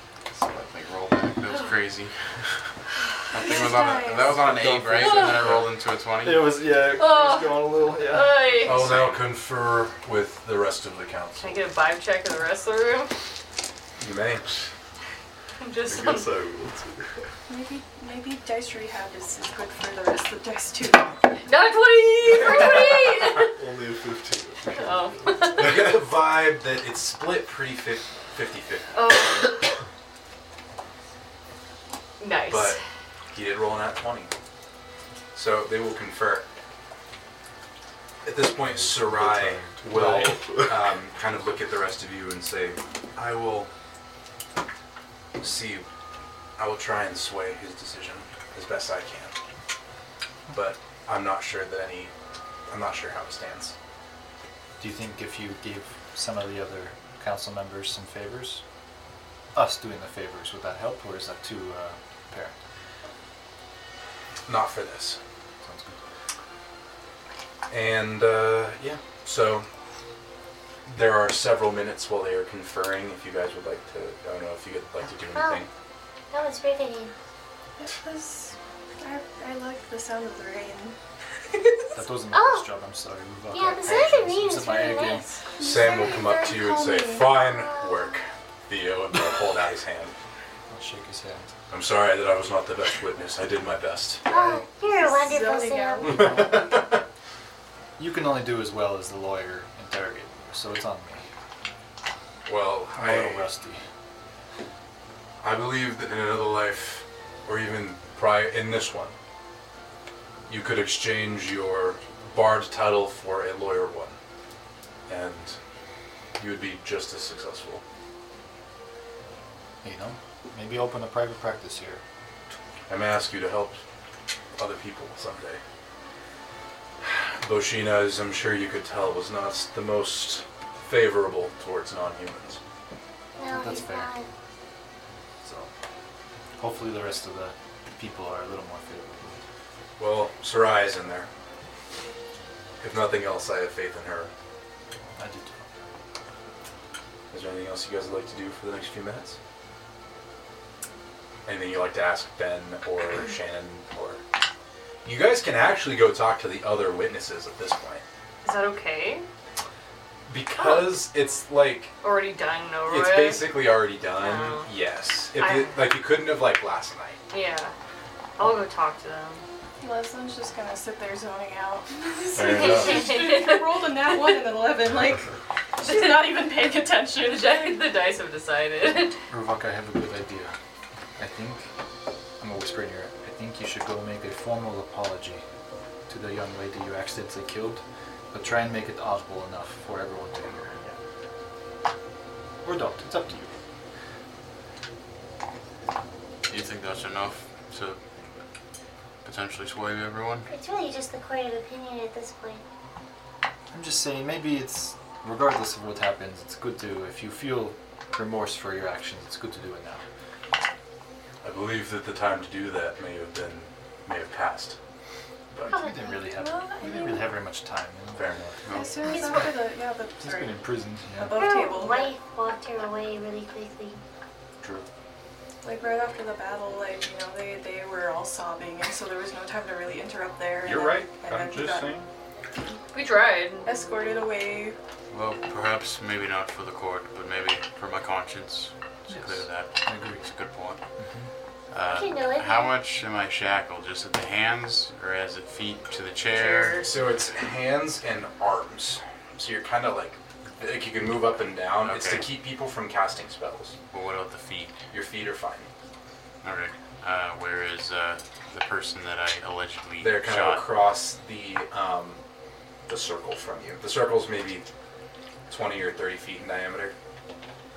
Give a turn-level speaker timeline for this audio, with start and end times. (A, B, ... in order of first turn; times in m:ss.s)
0:00.3-0:02.2 A
0:03.3-0:06.5 A
0:03.3-0:04.4 B
0:04.2-0:05.7 C
0:05.0-0:05.5 D
0:06.2-0:08.7 C
0:06.9-0:09.1 D
0:08.6-0:11.7 E
0:08.7-0:09.2 A
0:11.4-0:13.1 D
0:14.0-0:14.5 E
0:15.6-0:16.3 D
0:15.8-0:17.3 F
0:17.5-0:21.5 B
0:21.4-0:23.6 D
0:23.4-0:25.9 F
0:24.7-0:25.9 D
0:25.6-0:28.9 E
0:28.9-0:29.7 D
0:32.2-0:32.8 D
0:32.5-0:32.8 E
0:33.3-0:34.3 E
0:35.3-0:36.5 E
0:38.2-0:43.7 E
0:38.6-0:41.0 F
0:45.4-0:45.9 E
0:46.6-0:49.3 E
0:50.5-0:52.1 E
0:52.7-0:53.7 E
0:54.8-0:58.6 C
0:59.5-1:02.6 C
1:04.4-1:05.2 E
1:05.6-1:06.0 C
1:07.7-1:09.7 E
1:10.8-1:15.7 E
1:15.3-1:15.6 G
1:16.3-1:17.1 G
1:17.8-1:21.0 B
1:21.5-1:21.9 B
1:21.9-1:25.3 C
1:22.3-1:22.7 G
1:23.5-1:25.2 G
1:25.6-1:27.3 B
1:25.6-1:30.2 E
1:27.2-1:28.2 G
1:30.7-1:31.5 C
1:31.7-1:34.3 E
1:34.3-1:36.4 G
1:34.3-1:34.6 C
1:34.8-1:36.6 B
1:36.1-1:37.0 E
1:38.0-1:41.2 C
1:42.4-1:43.5 E
1:42.9-1:43.8 C
1:45.4-1:49.2 E
1:50.5-1:54.2 E
1:55.1-1:55.6 E
1:56.4-1:57.8 E
1:59.8-2:02.0 C
2:02.9-2:03.8 E
2:04.6-2:05.6 E
2:07.0-2:12.6 E
2:13.4-2:14.3 G
2:13.5-2:14.1 C
2:15.4-2:15.7 C
2:16.6-2:19.4 C
2:20.0-2:21.3 E
2:22.8-2:24.3 E
2:25.2-2:25.8 C
2:27.3-2:29.4 E
2:31.4-2:34.2 E
2:35.0-2:38.0 E
2:38.4-2:39.2 D
2:40.3-2:42.0 E
2:40.6-2:40.9 D
2:42.0-2:44.7 D
2:42.8-2:47.2 E
2:45.4-2:46.0 D
2:47.3-2:47.7 D
2:48.4-2:49.4 D
2:49.8-2:57.8 B
2:52.3-2:53.1 E
2:52.4-2:54.5 D
2:55.8-2:59.1 D
2:59.3-3:00.5 C
3:01.2-3:01.7 C
3:02.4-3:05.4 C
3:06.1-3:10.8 C
3:12.6-3:13.5 C
3:16.5-3:18.0 A
3:19.2-3:20.5 A
3:20.5-3:22.6 G
3:23.7-3:30.0 C
3:31.4-3:34.8 E
3:35.6-3:38.4 C
3:36.2-3:37.4 B
3:38.2-3:38.8 E
3:38.6-3:39.2 A
3:38.7-3:42.1 B
3:39.0-3:39.6 G
3:40.2-3:41.4 C
3:41.3-3:44.0 G
3:44.6-3:44.8 E
3:45.6-3:51.9 B
3:50.6-3:52.1 E
3:52.9-3:53.7 D
3:53.6-3:54.8 B
3:55.1-4:00.8 A
3:59.1-4:00.2 C
4:01.0-4:01.3 C
4:01.7-4:06.9 A
4:01.8-4:02.7 G
4:06.3-4:06.9 D
4:06.8-4:13.8 E
4:11.8-4:12.3 A
4:13.9-4:14.8 A
4:14.9-4:15.7 E
4:16.4-4:20.6 A
4:20.0-4:22.2 E
4:22.9-4:24.7 E
4:25.5-4:26.9 E